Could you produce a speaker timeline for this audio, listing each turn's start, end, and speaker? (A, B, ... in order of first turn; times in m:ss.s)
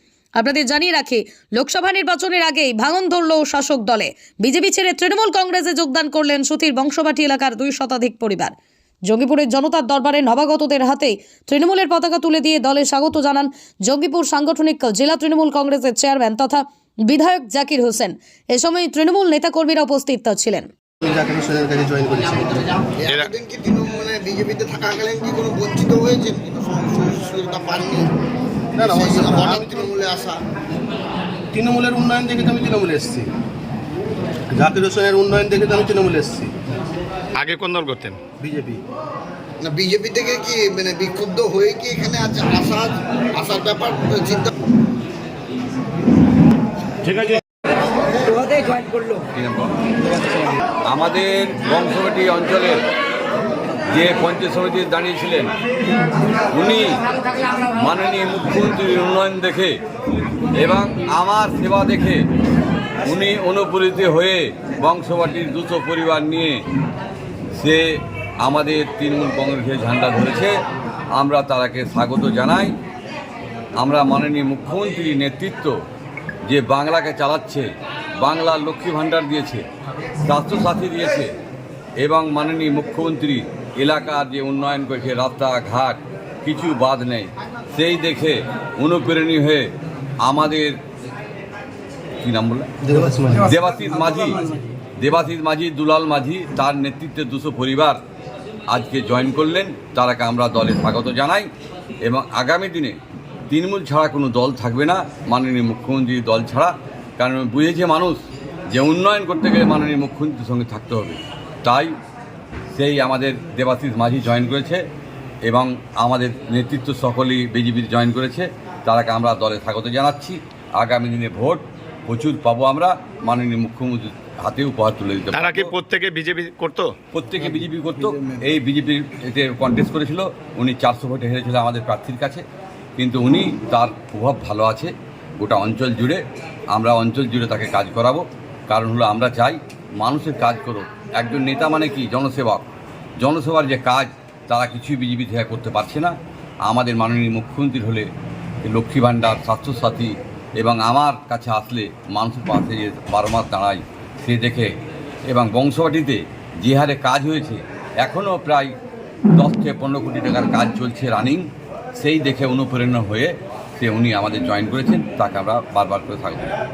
0:00.4-0:08.5 A
0:09.0-0:20.7 A
0:21.0-0:22.7 B
0:22.9-0:28.1 C
0:28.8-0:29.9 B
0:28.8-0:30.4 C
0:31.5-0:33.3 B
0:34.5-0:36.5 B
0:37.4-0:38.2 D
0:38.4-0:38.8 B
0:39.6-0:44.5 C
0:49.3-0:49.7 E
0:50.8-0:52.8 E
0:53.9-0:55.5 E
0:56.5-0:57.0 E
0:57.6-0:59.7 E
1:00.6-1:02.2 E
1:03.0-1:06.6 E
1:07.6-1:10.5 E
1:11.1-1:12.7 E
1:13.8-1:15.8 E
1:16.5-1:19.6 E
1:20.2-1:21.3 E
1:22.0-1:29.7 E
1:30.2-1:30.8 E
1:32.2-1:32.7 E
1:32.8-1:33.5 B
1:33.4-1:34.4 E
1:35.0-1:38.0 E
1:38.7-1:41.5 E
1:42.0-1:43.0 E
1:43.5-1:51.9 E
1:52.7-1:54.8 E
1:55.4-2:05.7 E
2:05.3-2:06.9 D
2:07.1-2:12.4 E
2:13.0-2:16.2 E
2:16.7-2:22.6 E
2:23.2-2:28.1 E
2:28.6-2:34.7 E
2:35.3-2:38.7 E
2:39.3-2:46.5 E